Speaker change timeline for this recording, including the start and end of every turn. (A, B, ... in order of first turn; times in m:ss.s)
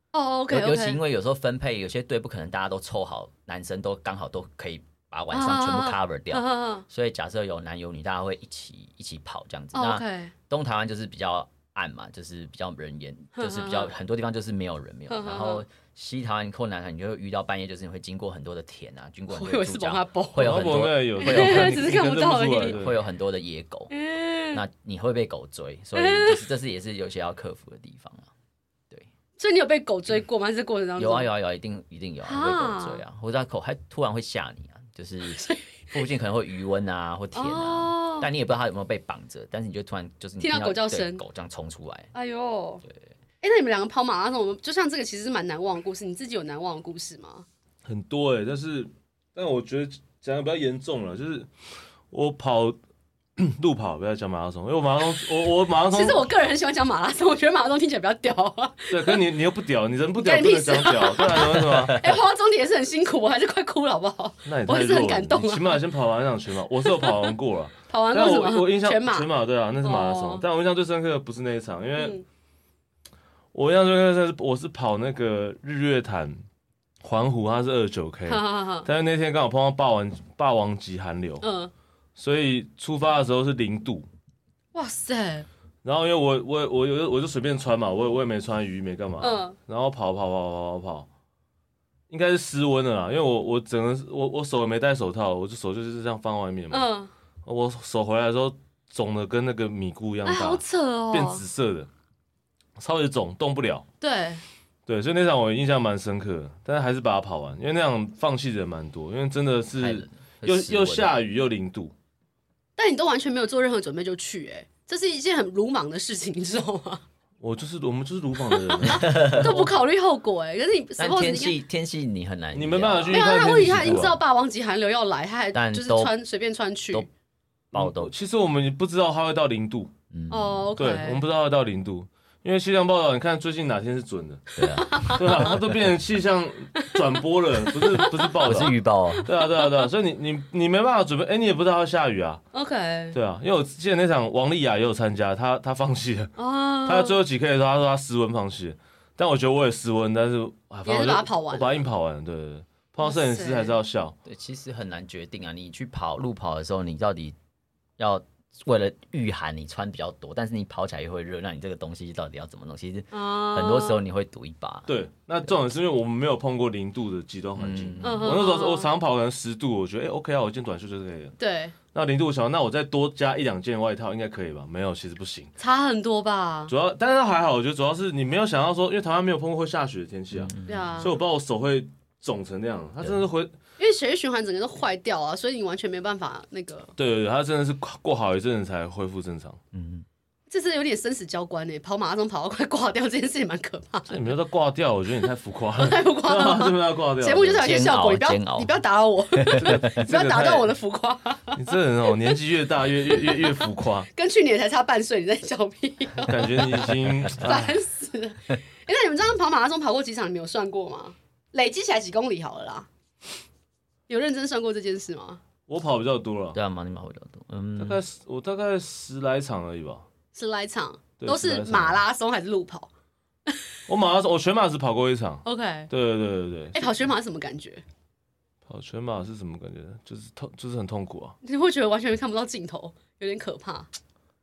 0:00.1-0:01.0 A
0:00.5-0:21.9 B
0:05.3-0:06.8 A
0:09.7-0:10.3 A
0:13.4-0:13.9 A
0:15.1-0:15.6 A
0:19.3-0:22.8 A
0:20.4-0:23.0 C
0:22.6-0:23.9 B
0:23.9-0:24.6 A
0:24.5-0:28.3 B
0:26.0-0:26.4 A
0:29.4-0:31.3 A
0:31.0-0:42.1 B
0:32.2-0:33.0 A
0:35.3-0:36.0 A
0:37.4-0:38.3 A
0:40.4-0:41.2 A
0:42.1-0:42.8 A
0:43.4-0:47.5 A
0:47.8-0:51.5 C
0:52.1-0:52.8 C
0:53.4-0:56.3 C
0:55.9-0:59.2 A
0:58.9-1:02.0 C
1:00.2-1:05.8 A
1:01.8-1:02.2 B
1:04.4-1:12.2 C
1:06.8-1:07.3 A
1:07.9-1:09.3 A
1:09.8-1:10.4 A
1:12.0-1:12.2 A
1:13.5-1:16.4 C
1:17.0-1:21.4 C
1:18.3-1:18.9 A
1:21.4-1:21.7 A
1:22.2-1:24.1 C
1:24.7-1:25.5 A
1:25.8-1:31.1 C
1:29.2-1:29.6 A
1:32.1-1:36.9 C
1:36.7-1:37.1 A
1:37.4-1:41.9 C
1:40.2-1:41.4 A
1:42.8-1:43.8 C
1:44.0-1:44.4 A
1:44.9-1:51.9 C
1:49.8-1:51.2 B
1:52.8-1:57.0 A
1:57.4-1:59.7 C
1:58.5-2:01.6 A
1:58.8-1:59.7 B
2:01.0-2:04.2 B
2:02.5-2:04.2 C
2:03.1-2:07.1 A
2:05.5-2:06.1 B
2:07.7-2:08.1 B
2:07.7-2:09.9 C
2:10.1-2:10.7 B
2:10.3-2:11.2 A
2:10.8-2:14.4 C
2:14.6-2:15.6 B
2:14.6-2:15.2 A
2:15.1-2:22.4 C
2:17.7-2:19.8 A
2:18.4-2:19.3 B
2:22.5-2:23.2 A
2:23.1-2:34.2 C
2:26.4-2:27.2 A
2:30.8-2:31.8 A
2:33.0-2:33.8 A
2:34.3-2:37.4 B
2:38.0-2:44.9 B
2:43.1-2:44.0 A
2:44.9-2:51.3 C
2:47.6-2:48.4 B
2:48.0-2:48.9 A
2:51.4-2:51.8 A
2:51.9-2:55.5 C
2:55.6-2:56.7 A
2:56.7-3:03.6 C
3:00.4-3:01.0 B
3:00.7-3:01.1 A
3:03.8-3:06.9 A
3:07.0-3:09.6 C
3:09.7-3:10.1 B
3:10.5-3:14.2 A
3:14.1-3:17.6 C
3:15.8-3:22.3 A
3:17.6-3:18.8 B
3:19.4-3:20.0 B
3:19.6-3:20.7 C
3:21.6-3:24.1 C
3:23.1-3:23.6 A
3:24.1-3:32.9 A
3:26.2-3:27.8 C
3:34.1-3:35.4 A
3:35.7-3:36.6 C
3:36.5-3:38.0 B
3:37.8-3:40.1 C
3:40.3-3:42.9 A
3:41.2-3:42.0 C
3:43.9-3:47.0 C
3:45.4-3:45.9 A
3:46.7-3:47.8 A
3:48.7-3:51.4 C
3:51.4-3:53.9 A